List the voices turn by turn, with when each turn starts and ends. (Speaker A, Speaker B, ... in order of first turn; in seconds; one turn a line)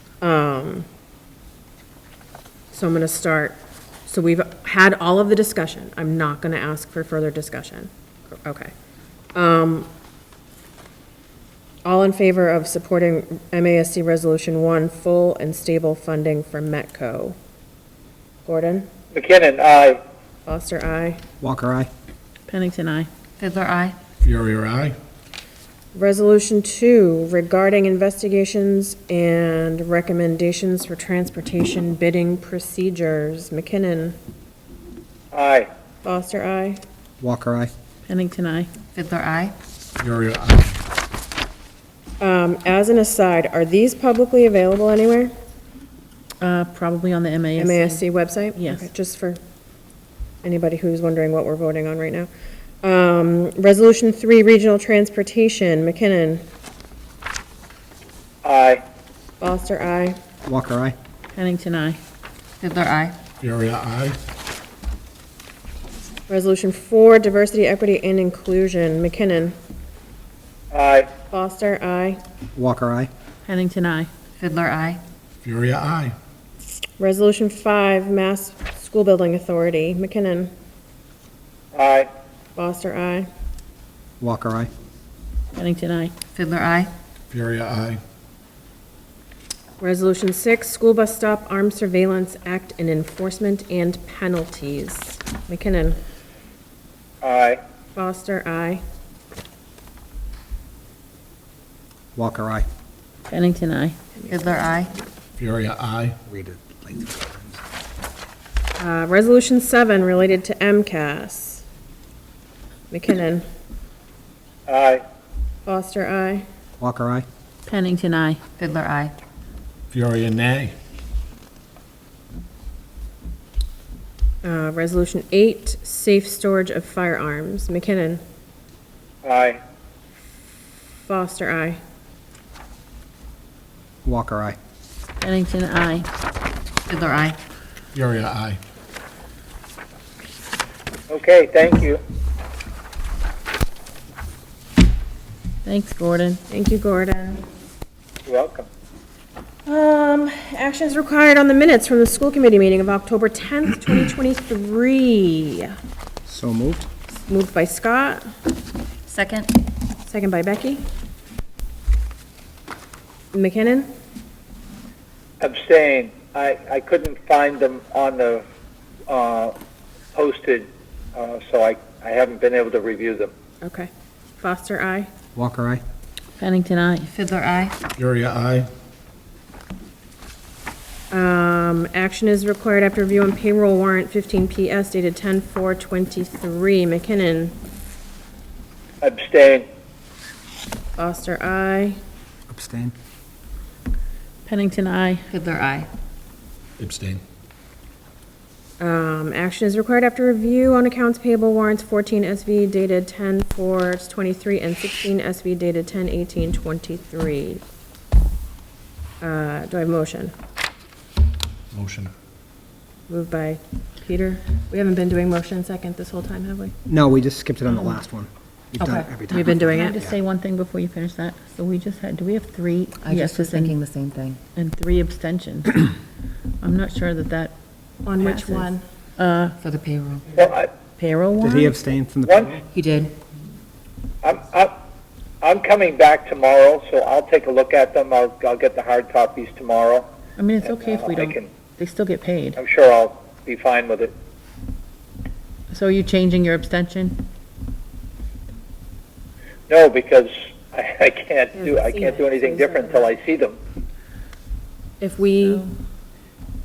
Speaker A: 0.2-0.8
Speaker A: 2.7-8.7
Speaker A: 9.3-9.9
Speaker A: 11.8-17.4
Speaker A: 18.4-18.9
Speaker B: 19.1-20.0
Speaker A: 20.4-21.2
Speaker C: 21.4-21.9
Speaker D: 22.5-23.1
Speaker E: 23.4-24.0
Speaker F: 24.2-24.9
Speaker A: 25.9-34.2
Speaker B: 35.3-35.7
Speaker A: 36.0-36.8
Speaker C: 37.2-37.7
Speaker D: 38.1-38.7
Speaker E: 38.9-39.5
Speaker F: 40.0-40.8
Speaker A: 42.2-45.3
Speaker D: 46.4-48.9
Speaker A: 47.5-49.4
Speaker A: 50.4-52.3
Speaker A: 52.8-56.4
Speaker B: 58.4-58.8
Speaker A: 59.4-60.2
Speaker C: 60.4-60.9
Speaker D: 61.3-62.0
Speaker E: 62.6-63.1
Speaker F: 63.4-64.2
Speaker A: 66.3-69.6
Speaker B: 70.7-71.1
Speaker A: 71.3-72.2
Speaker C: 72.5-73.1
Speaker D: 73.5-74.1
Speaker E: 74.4-75.0
Speaker F: 75.4-76.1
Speaker A: 77.0-80.5
Speaker B: 81.7-82.1
Speaker A: 82.5-83.3
Speaker C: 84.2-84.7
Speaker D: 85.5-86.1
Speaker E: 86.3-86.9
Speaker F: 87.3-88.0
Speaker A: 89.8-96.0
Speaker B: 97.2-97.6
Speaker A: 97.9-98.8
Speaker C: 102.1-102.7
Speaker D: 103.3-104.0
Speaker E: 104.3-104.9
Speaker F: 105.4-106.2
Speaker C: 106.2-107.6
Speaker A: 108.8-111.6
Speaker A: 112.9-113.5
Speaker B: 114.7-115.0
Speaker A: 115.7-116.4
Speaker C: 116.8-117.2
Speaker D: 117.7-118.4
Speaker E: 118.6-119.1
Speaker F: 119.9-120.7
Speaker A: 124.4-128.2
Speaker B: 129.2-129.6
Speaker A: 131.0-131.8
Speaker C: 134.0-134.6
Speaker D: 135.2-136.1
Speaker E: 136.9-137.4
Speaker F: 137.9-138.6
Speaker B: 141.1-142.0
Speaker D: 145.6-146.4
Speaker A: 146.5-147.4
Speaker B: 148.2-148.7
Speaker A: 149.7-155.7
Speaker C: 156.2-156.9
Speaker A: 157.3-158.3
Speaker E: 159.1-159.5
Speaker A: 160.1-160.8
Speaker A: 163.3-163.9
Speaker B: 165.4-168.4
Speaker B: 169.1-169.5
Speaker B: 170.1-173.3
Speaker A: 173.6-175.1
Speaker C: 175.3-175.8
Speaker D: 176.4-177.1
Speaker E: 177.1-177.8
Speaker F: 178.0-178.7
Speaker A: 181.1-187.6
Speaker B: 189.0-189.7
Speaker A: 191.0-192.0
Speaker C: 192.5-192.9
Speaker D: 194.4-195.2
Speaker E: 195.3-195.9
Speaker F: 196.8-197.2
Speaker A: 198.8-207.6
Speaker A: 209.2-210.3
Speaker F: 211.7-212.1
Speaker A: 213.1-216.7
Speaker C: 216.9-220.1
Speaker A: 218.8-220.0
Speaker D: 219.6-223.8
Speaker E: 223.0-224.4
Speaker D: 224.6-225.9
Speaker D: 226.6-227.5
Speaker A: 228.0-228.8
Speaker D: 228.2-229.6
Speaker E: 229.6-230.3
Speaker B: 230.3-230.7
Speaker D: 231.0-231.7
Speaker C: 231.4-232.6
Speaker B: 232.2-232.5
Speaker E: 232.7-233.1
Speaker B: 234.2-234.8
Speaker B: 235.4-240.1
Speaker D: 240.4-242.6
Speaker B: 240.6-241.5
Speaker B: 242.6-244.1
Speaker D: 245.7-247.2
Speaker B: 249.7-253.6
Speaker A: 251.5-253.2
Speaker A: 255.0-255.7
Speaker D: 255.4-255.7